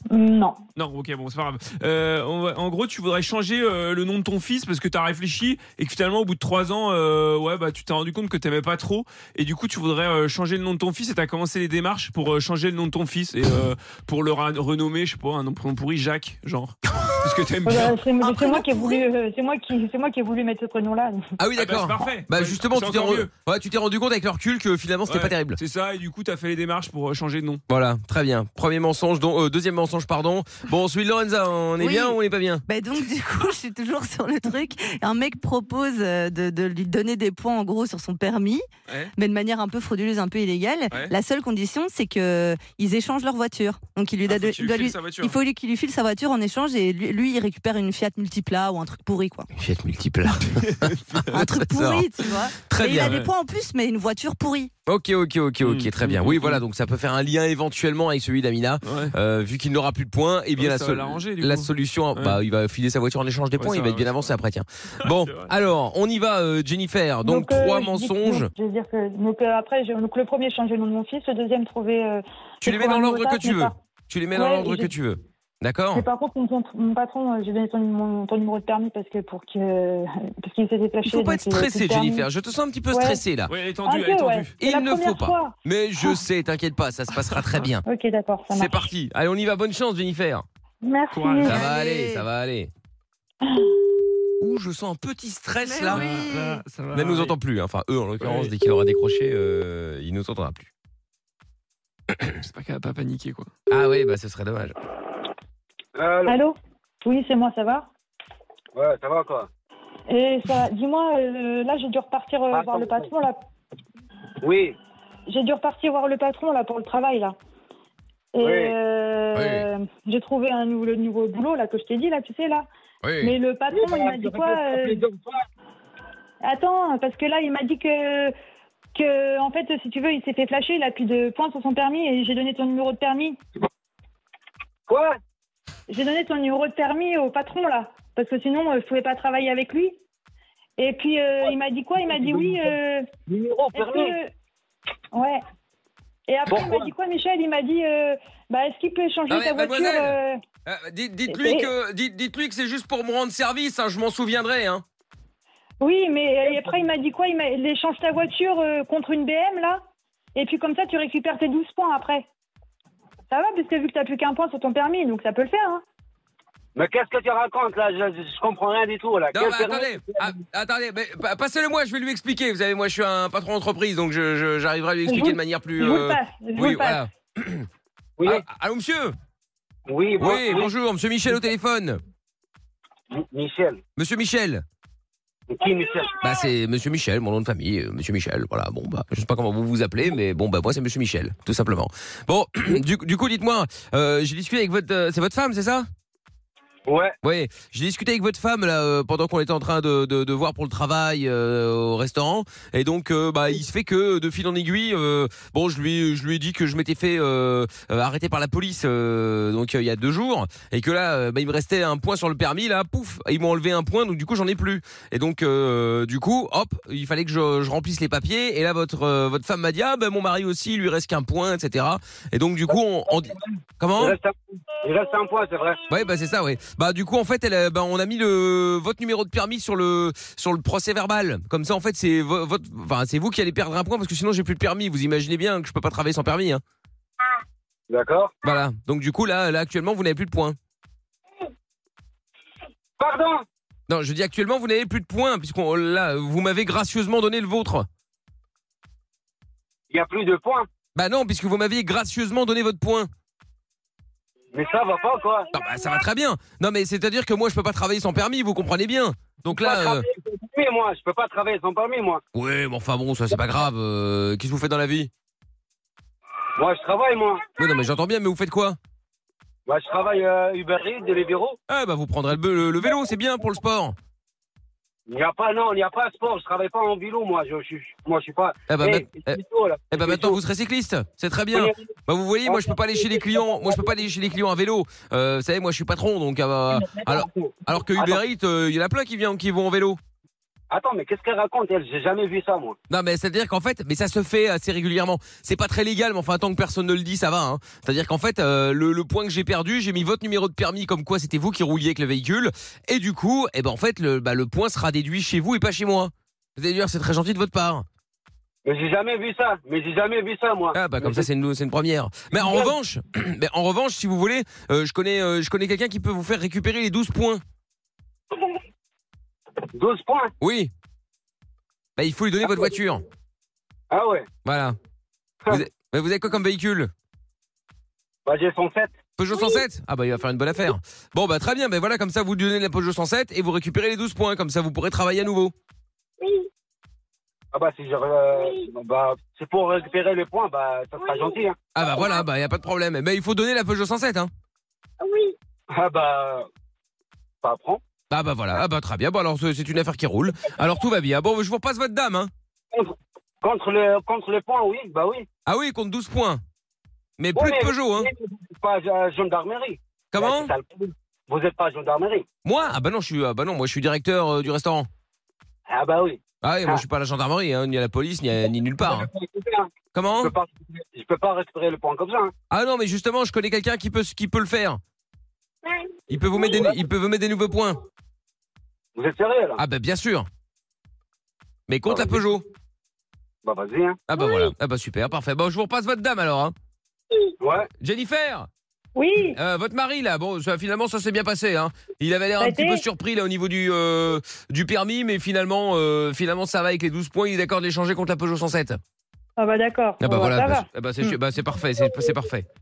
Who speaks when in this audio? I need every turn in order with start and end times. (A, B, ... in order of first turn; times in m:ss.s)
0:00.1-0:00.6 A
0:00.8-0:18.0 B
0:17.6-0:21.2 A
0:18.2-0:19.1 C
0:21.4-0:25.6 D
0:21.6-0:23.3 B
0:25.1-0:27.6 B
0:27.7-0:32.6 D
0:31.8-0:38.6 C
0:39.2-0:49.5 C
0:44.2-0:45.4 B
0:49.6-0:52.1 D
0:50.6-0:51.4 B
0:51.3-0:54.7 C
0:52.6-0:53.2 D
0:52.8-0:53.3 B
0:54.9-1:08.5 D
0:55.6-0:56.6 B
0:58.8-0:59.1 B
1:00.6-1:02.4 B
1:03.6-1:04.3 B
1:05.0-1:05.5 B
1:07.2-1:13.8 A
1:12.6-1:16.0 D
1:14.3-1:14.9 A
1:15.9-1:22.3 A
1:21.0-1:23.5 D
1:22.9-1:23.2 A
1:23.5-1:24.6 B
1:23.8-1:26.2 A
1:24.6-1:27.8 D
1:27.9-1:28.8 A
1:28.5-1:30.4 D
1:30.8-1:31.6 A
1:31.1-1:31.7 B
1:31.4-1:32.7 D
1:31.5-1:32.3 C
1:33.4-1:33.7 A
1:34.4-1:36.1 D
1:35.6-1:36.6 C
1:35.9-1:37.4 B
1:36.9-1:40.7 D
1:38.2-1:38.5 B
1:42.4-1:43.5 B
1:43.7-1:44.8 D
1:46.0-1:46.4 E
1:46.2-1:47.9 A
1:48.8-1:49.5 E
1:50.1-1:53.4 A
1:52.5-1:53.1 E
1:54.4-1:54.8 E
1:55.3-1:57.4 A
1:58.3-2:02.7 A
1:58.4-1:58.8 E
1:59.4-1:59.7 D
2:03.0-2:03.4 D
2:03.2-2:05.0 A
2:03.7-2:05.3 E
2:06.4-2:08.3 A
2:09.0-2:13.4 A
2:14.9-2:15.2 E
2:15.9-2:20.0 A
2:20.8-2:23.1 A
2:22.0-2:22.7 E
2:23.3-2:24.1 E
2:23.7-2:24.3 A
2:25.1-2:25.4 A
2:26.3-2:30.4 A
2:26.5-2:26.9 E
2:29.3-2:34.8 D
2:31.3-2:31.7 A
2:35.8-2:39.8 A
2:40.4-2:42.3 A
2:43.3-2:45.8 A
2:46.8-2:50.2 E
2:49.3-2:57.7 D
2:55.1-2:57.0 A
2:58.2-2:59.2 D
2:59.9-3:00.7 E
3:00.2-3:02.0 D
3:03.1-3:03.8 E
3:04.0-3:04.6 D
3:05.5-3:06.2 E
3:06.2-3:15.9 D
3:16.9-3:17.2 E
3:17.2-3:44.2 D
3:44.0-3:45.8 E
3:45.9-3:56.6 D
3:57.9-3:58.3 E
3:58.4-4:00.6 D
4:03.0-4:03.4 E
4:03.9-4:07.9 D
4:09.9-4:10.7 E
4:11.0-4:13.1 D
4:14.5-4:15.5 E
4:15.5-4:20.0 D
4:19.5-4:22.2 E
4:22.3-4:25.1 D
4:26.6-4:27.5 E
4:27.6-4:28.8 D
4:29.7-4:31.6 E
4:31.7-4:34.0 D
4:35.1-4:40.4 E
4:38.7-4:39.4 D
4:39.9-4:50.0 D
4:42.5-4:43.9 E
4:46.7-4:48.2 E
4:50.7-4:52.8 E
4:52.9-5:07.8 D
5:08.6-5:11.2 E
5:10.7-5:17.4 D
5:12.4-5:12.7 E
5:19.7-5:20.3 E
5:20.4-5:20.7 D
5:22.0-5:23.0 D
5:23.9-5:24.3 E
5:24.4-5:24.8 D
5:25.5-5:26.9 D
5:28.3-5:28.9 E
5:29.2-5:35.5 D
5:37.5-5:41.6 E
5:41.8-5:44.3 D
5:45.7-5:46.5 E
5:47.4-5:47.8 E
5:48.1-5:52.3 D
5:52.7-5:55.3 E
5:55.5-5:56.4 D
5:57.2-5:58.1 D
5:57.4-6:02.3 E
6:00.1-6:00.5 D
6:02.4-6:04.9 D
6:05.7-6:06.8 E
6:06.4-6:09.1 D
6:08.8-6:12.3 E
6:09.9-6:10.3 D
6:12.5-6:14.8 D
6:16.1-6:17.8 D
6:19.0-6:19.6 E
6:19.6-6:20.3 D
6:21.7-6:22.4 D
6:21.9-6:22.2 E
6:23.4-6:24.0 E
6:24.1-6:26.5 D
6:27.4-6:27.7 E
6:27.8-6:28.5 D
6:29.0-6:29.4 A
6:29.4-6:38.8 D
6:32.4-6:32.8 A
6:39.4-6:41.2 A
6:40.0-6:42.5 D